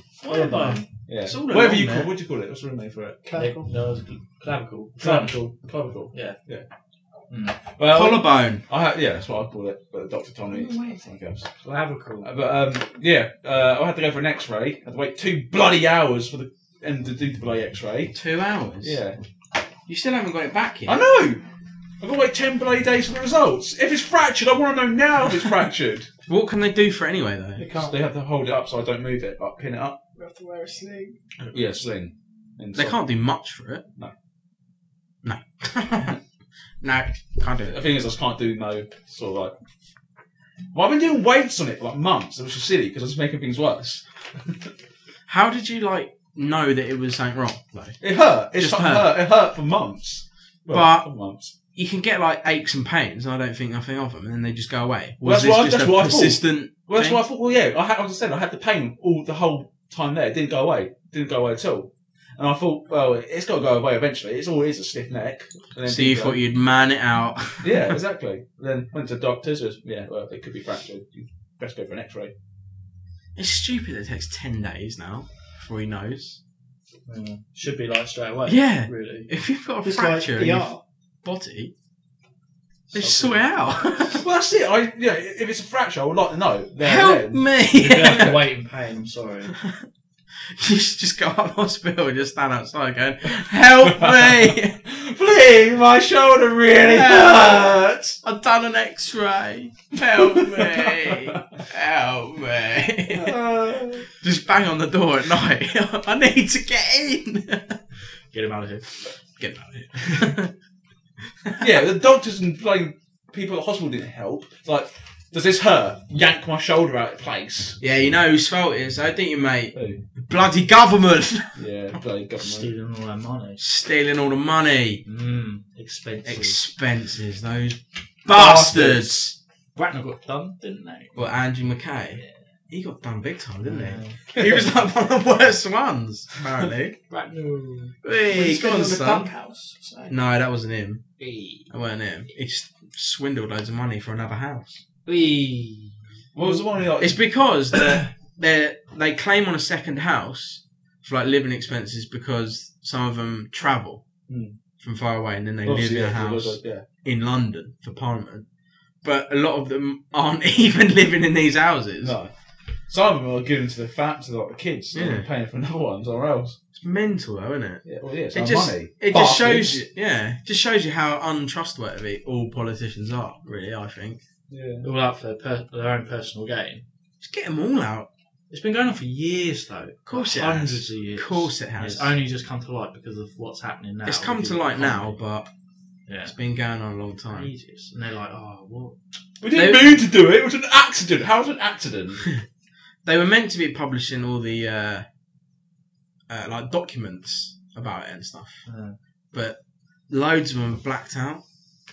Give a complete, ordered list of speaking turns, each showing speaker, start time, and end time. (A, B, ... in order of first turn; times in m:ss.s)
0:00.2-0:02.1 A
0:00.3-0:00.8 B
0:01.1-0:03.2 C
0:03.2-0:03.7 D
0:03.4-0:06.4 B
0:05.0-0:06.7 C
0:07.3-0:07.6 B
0:07.8-0:11.5 C
0:07.9-0:08.6 A
0:10.5-0:11.1 D
0:11.6-0:12.3 B
0:12.2-0:18.1 C
0:18.1-0:19.0 A
0:18.8-0:19.2 C
0:19.9-0:21.0 A
0:20.9-0:21.4 C
0:22.0-0:26.1 C
0:26.3-0:27.6 A
0:27.6-0:28.0 D
0:27.7-0:30.0 C
0:30.2-0:31.2 D
0:31.5-0:33.0 C
0:32.7-0:33.8 A
0:35.2-0:36.2 A
0:36.8-0:37.8 A
0:37.6-0:39.5 C
0:40.7-0:44.0 C
0:45.3-0:48.0 A
0:48.0-0:51.5 C
0:48.6-0:49.1 A
0:50.7-0:51.1 A
0:51.7-0:57.2 A
0:55.2-1:06.4 C
1:05.8-1:08.0 A
1:07.6-1:12.3 C
1:13.4-1:16.4 A
1:17.1-1:19.3 B
1:18.5-1:20.7 A
1:19.8-1:20.8 D
1:21.2-1:21.7 A
1:22.9-1:24.2 A
1:22.9-1:23.6 B
1:24.1-1:27.5 C
1:26.8-1:28.4 A
1:27.8-1:29.6 B
1:29.5-1:29.8 A
1:30.5-1:34.8 A
1:34.9-1:38.2 C
1:36.8-1:43.4 A
1:43.1-1:44.1 C
1:44.1-1:47.8 A
1:48.3-1:48.8 B
1:49.4-1:50.5 A
1:51.4-1:51.7 A
1:51.6-1:57.8 C
1:57.8-2:01.6 A
1:59.7-2:00.0 C
2:01.6-2:02.7 C
2:02.4-2:03.6 B
2:03.6-2:05.0 A
2:05.1-2:06.6 B
2:06.2-2:09.3 A
2:08.3-2:09.3 C
2:09.8-2:11.3 B
2:11.2-2:17.0 A
2:13.7-2:14.2 B
2:17.1-2:17.9 B
2:18.0-2:19.3 A
2:18.3-2:20.2 D
2:20.1-2:21.0 A
2:21.2-2:21.7 B
2:21.7-2:24.8 A
2:25.1-2:26.6 B
2:26.3-2:27.2 C
2:27.0-2:34.0 A
2:34.3-2:34.6 C
2:34.8-2:38.5 A
2:35.6-2:36.8 C
2:39.0-2:42.2 A
2:42.0-2:42.3 C
2:42.9-2:46.6 C
2:44.9-2:45.3 A
2:46.8-2:54.2 A
2:47.8-2:49.9 C
2:54.5-2:54.9 C
2:54.8-2:56.8 B
2:57.2-2:58.1 A
2:58.5-3:05.2 B
3:00.1-3:02.2 A
3:04.0-3:05.5 A
3:06.1-3:06.3 B
3:06.2-3:07.5 A
3:07.3-3:09.0 B
3:09.4-3:12.3 C
3:09.5-3:10.0 A
3:13.0-3:15.1 A
3:16.3-3:18.6 A
3:18.7-3:19.0 B
3:19.3-3:19.6 A
3:20.1-3:21.4 A